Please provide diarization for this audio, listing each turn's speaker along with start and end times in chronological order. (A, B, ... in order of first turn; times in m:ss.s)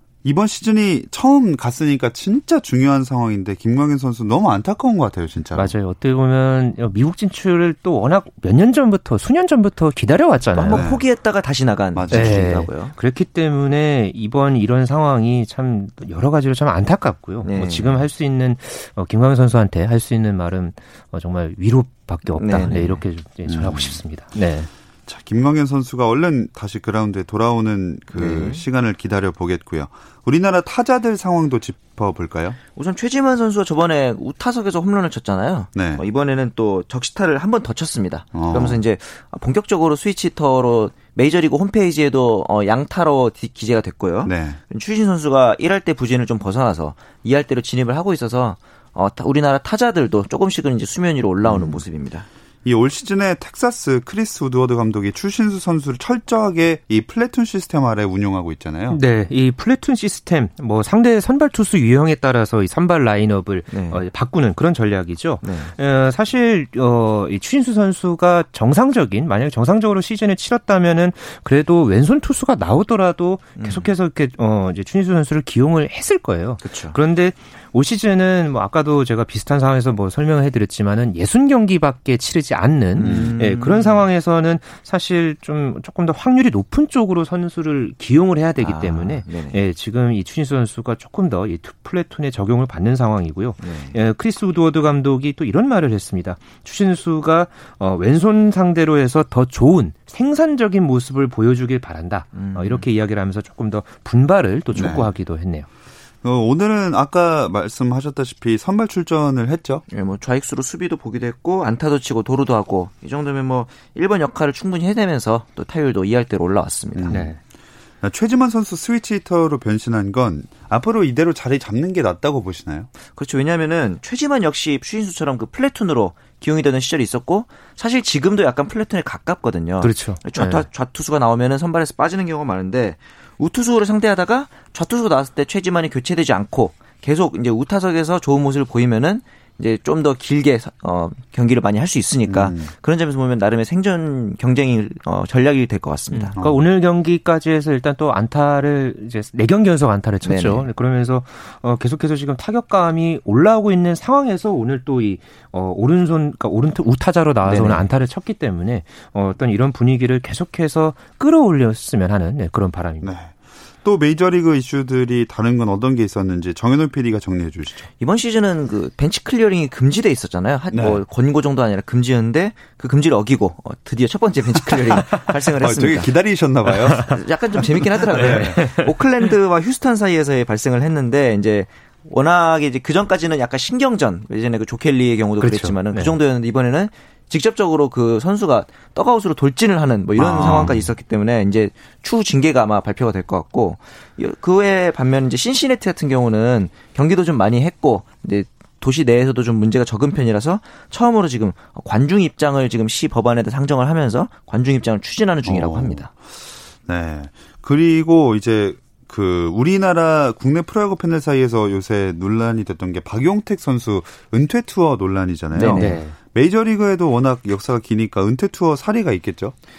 0:00.2-0:05.7 A
0:05.6-0:10.8 B
0:10.5-0:12.9 C
0:10.7-0:11.0 A
0:11.9-0:12.6 A
0:12.1-0:24.7 B
0:17.4-0:18.0 C
0:22.4-0:23.0 C
0:23.5-0:24.0 A
0:25.1-0:32.6 A
0:28.1-0:28.6 C
0:32.7-0:52.2 C
0:35.7-0:36.0 A
0:38.3-0:38.8 A
0:44.2-0:44.6 A
0:51.4-0:51.8 A
0:52.6-0:59.0 A
0:58.9-1:45.7 B
1:03.7-1:04.0 C
1:05.4-1:05.7 C
1:13.6-1:13.9 C
1:16.6-1:17.0 C
1:23.0-1:24.0 C
1:23.0-1:23.3 A
1:28.6-1:29.6 C
1:33.6-1:34.0 C
1:42.3-1:42.8 C
1:44.7-1:45.1 A
1:46.2-1:49.8 A
1:49.9-1:57.2 C
1:56.9-1:57.3 A
1:57.1-1:57.4 B
1:58.0-2:02.9 A
2:03.1-2:26.3 C
2:09.8-2:10.6 B
2:22.2-2:22.7 A
2:26.1-2:43.1 B
2:30.2-2:30.7 C
2:37.4-2:37.9 C
2:43.0-2:47.9 A
2:48.0-2:56.1 C
2:50.7-2:51.0 A
2:55.6-2:57.2 A
2:56.8-3:26.1 C
2:58.1-2:58.5 A
2:58.2-2:58.8 B
3:05.4-3:06.1 B
3:10.2-3:10.9 A
3:25.4-3:39.5 A
3:35.5-3:36.0 C
3:35.6-3:36.1 B